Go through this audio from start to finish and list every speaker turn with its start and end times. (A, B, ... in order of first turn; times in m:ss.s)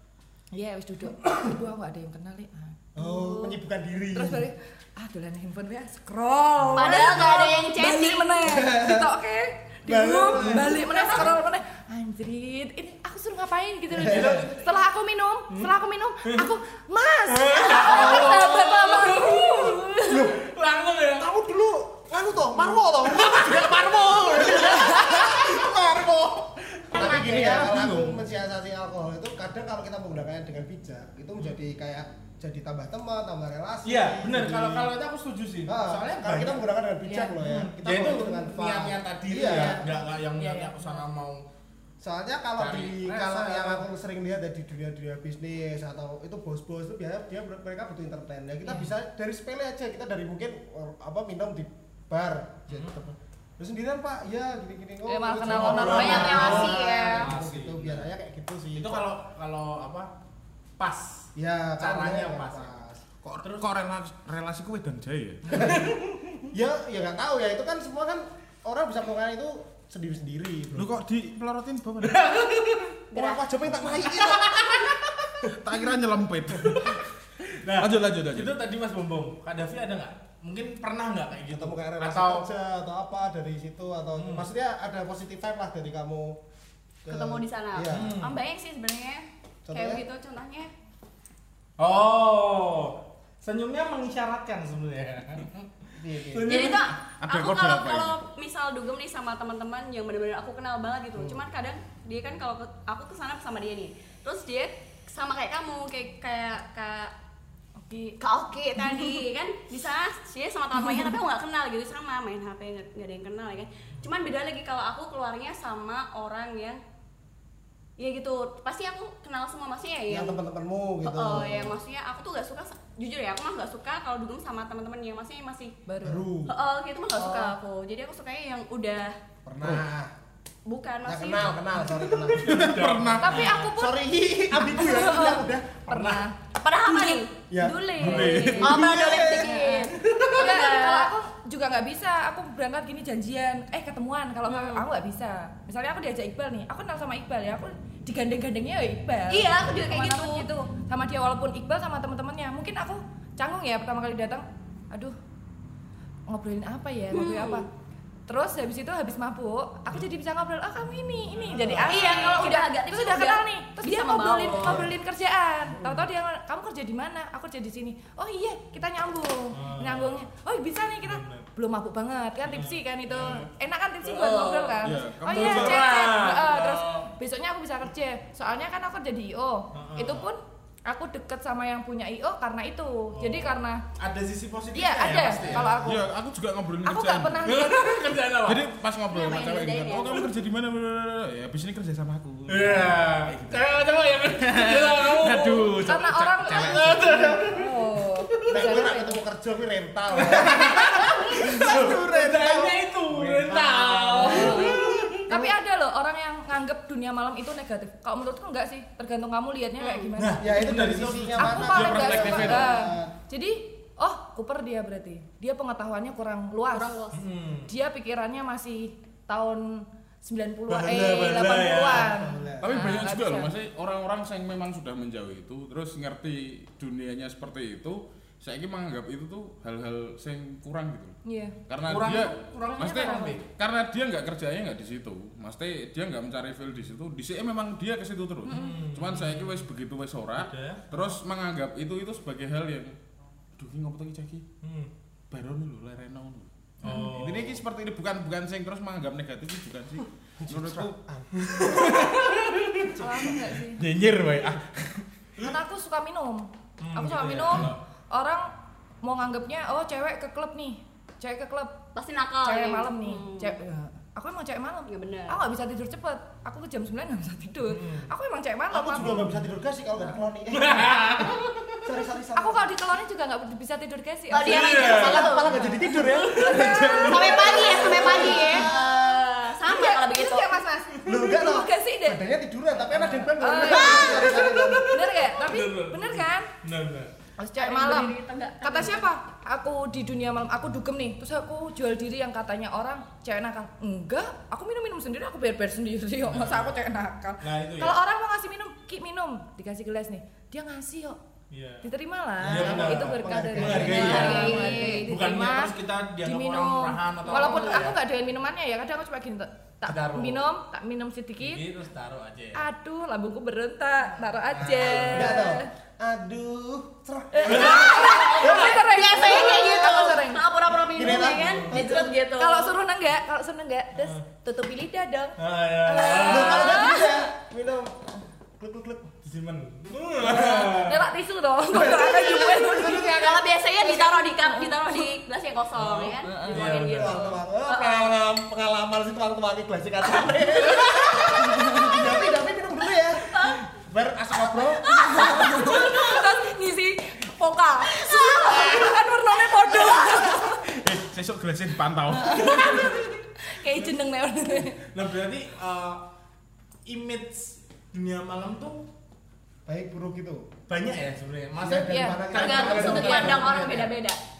0:00.5-0:03.6 A
0:03.0-0:04.5 B
0:04.1-0:20.3 A
0:06.6-0:06.9 C
0:06.7-0:08.6 D
0:08.4-0:09.1 B
0:09.8-0:11.3 B
0:10.2-0:10.6 C
0:13.9-0:14.5 B
0:14.0-0:14.7 C
0:15.5-0:16.5 C
0:17.2-0:21.3 C
0:20.1-0:20.3 B
0:21.2-0:25.7 B
0:22.4-0:28.2 C
0:24.9-0:25.4 A
0:26.9-0:34.9 B
0:33.8-0:36.6 C
0:35.6-0:39.8 B
0:37.1-0:37.4 A
0:37.4-0:41.4 C
0:39.5-0:41.0 A
0:42.0-0:59.0 B
0:42.6-0:43.8 C
0:52.7-0:53.0 C
0:55.1-0:56.7 A
0:55.5-0:58.1 C
0:55.8-0:57.3 D
0:58.7-1:00.1 C
1:00.8-1:02.7 C
1:01.4-1:03.0 B
1:03.2-1:05.7 E
1:05.5-1:06.5 C
1:05.6-1:05.8 B
1:06.5-1:10.9 B
1:10.8-1:12.4 E
1:12.0-1:13.0 C
1:13.1-1:13.5 D
1:13.1-1:15.0 B
1:13.9-1:15.2 C
1:15.4-1:17.0 E
1:16.6-1:22.4 C
1:17.7-1:18.5 E
1:21.5-1:26.4 B
1:24.2-1:24.5 C
1:27.0-1:28.2 B
1:27.1-1:30.7 D
1:27.9-1:28.4 C
1:29.7-1:30.0 B
1:31.8-1:36.9 C
1:36.0-1:36.5 B
1:36.5-1:47.1 D
1:37.2-1:38.2 E
1:47.8-1:48.2 A
1:48.2-1:56.8 D
1:48.8-1:49.2 A
1:50.8-1:51.2 A
1:58.0-2:00.4 D
2:00.1-2:01.8 B
2:01.0-2:05.8 D
2:05.9-2:06.2 A
2:06.0-2:06.5 B
2:06.4-2:09.2 D
2:09.4-2:10.1 B
2:09.6-2:09.8 C
2:10.6-2:11.6 D
2:11.0-2:15.8 B
2:12.0-2:13.7 C
2:12.4-2:13.5 E
2:13.2-2:14.0 A
2:14.8-2:16.4 A
2:15.9-2:16.2 C
2:16.6-2:21.1 D
2:16.9-2:17.2 A
2:17.5-2:19.5 B
2:18.0-2:19.4 E
2:18.2-2:18.7 A
2:19.4-2:35.2 A
2:19.9-2:20.4 C
2:24.4-2:24.8 D
2:29.3-2:30.5 D
2:36.3-2:37.7 A
2:37.1-2:37.6 D
2:38.3-3:03.8 A
2:41.3-2:42.4 C
2:41.8-2:44.9 D
2:44.6-2:44.9 C
2:49.5-2:50.2 C
2:51.0-2:51.5 C
2:52.4-2:53.5 C
2:54.0-2:57.1 C
2:54.8-2:56.0 E
2:59.7-3:00.3 C
3:03.1-3:06.0 C
3:04.7-3:06.0 A
3:05.4-3:07.6 E
3:06.8-3:08.1 A
3:07.4-3:08.7 C
3:08.4-3:13.7 E
3:09.1-3:10.3 D
3:12.5-3:18.5 C
3:14.5-3:17.0 E
3:15.8-3:19.2 A
3:18.5-3:25.5 B
3:20.1-3:25.2 C
3:24.2-3:30.4 A
3:29.8-3:30.1 D
3:30.2-3:32.8 C
3:30.4-3:33.1 B
3:31.4-3:37.0 A
3:31.6-3:32.6 E
3:36.7-3:37.2 D
3:37.1-3:37.7 C
3:37.7-3:43.5 A
3:40.7-3:42.3 C
3:41.8-3:42.8 B
3:42.6-4:03.0 E
3:51.2-3:51.6 A
3:51.8-3:53.4 C
3:52.8-3:53.4 A
3:58.4-3:58.8 A
3:58.5-3:59.7 C
4:00.4-4:00.9 C
4:03.6-4:04.4 E
4:04.6-4:04.9 C
4:05.3-4:10.9 E
4:06.8-4:07.6 C
4:10.4-4:12.2 B
4:11.4-4:13.6 C
4:12.9-4:13.8 A
4:13.7-4:15.0 E
4:15.4-4:18.4 A
4:16.8-4:17.8 C
4:19.0-4:21.7 A
4:21.9-4:23.6 D
4:22.4-4:29.2 A
4:24.9-4:25.4 D
4:27.6-4:28.1 C
4:28.7-4:32.7 B
4:28.9-4:29.4 C
4:30.5-4:31.9 C
4:32.4-4:38.7 A
4:34.3-4:35.5 D
4:34.4-4:38.6 C
4:34.6-4:39.2 B
4:37.1-4:40.5 D
4:39.6-4:42.2 A
4:41.0-4:41.3 C
4:41.0-4:44.9 B
4:42.8-4:46.5 A
4:43.5-4:44.5 D
4:43.7-4:47.1 C
4:47.4-5:01.2 A
4:47.6-4:49.1 D
4:56.2-4:56.7 C
4:57.4-4:58.0 C
5:01.5-5:08.0 C
5:01.8-5:11.6 A
5:02.4-5:04.4 B
5:03.8-5:05.1 D
5:09.8-5:10.4 C
5:11.4-5:12.6 C
5:12.5-5:15.7 A
5:14.5-5:15.5 C
5:15.1-5:18.0 B
5:17.3-5:20.4 A
5:17.4-5:18.8 C
5:17.9-5:22.8 D
5:19.4-5:19.7 B
5:20.8-5:22.1 B
5:21.4-5:21.7 C
5:22.3-5:27.2 A
5:24.0-5:24.2 C
5:25.4-5:26.8 C
5:26.2-5:29.1 B
5:29.2-5:31.1 C
5:30.2-5:35.1 A
5:31.7-5:33.1 B
5:32.6-5:38.1 D
5:35.7-5:37.3 C
5:36.2-5:36.7 A
5:36.9-5:45.8 B
5:41.6-5:41.9 A
5:43.3-5:43.6 D
5:44.8-5:46.4 D
5:45.0-5:50.6 A
5:47.8-5:49.0 D
5:49.6-5:50.3 D
5:50.6-5:52.8 E
5:52.1-5:54.9 A
5:52.5-5:53.1 C
5:54.7-5:56.0 C
5:56.9-5:58.8 C
5:59.7-6:00.5 B
6:00.7-6:03.9 C
6:01.6-6:03.8 B
6:01.9-6:03.6 A
6:02.3-6:04.2 D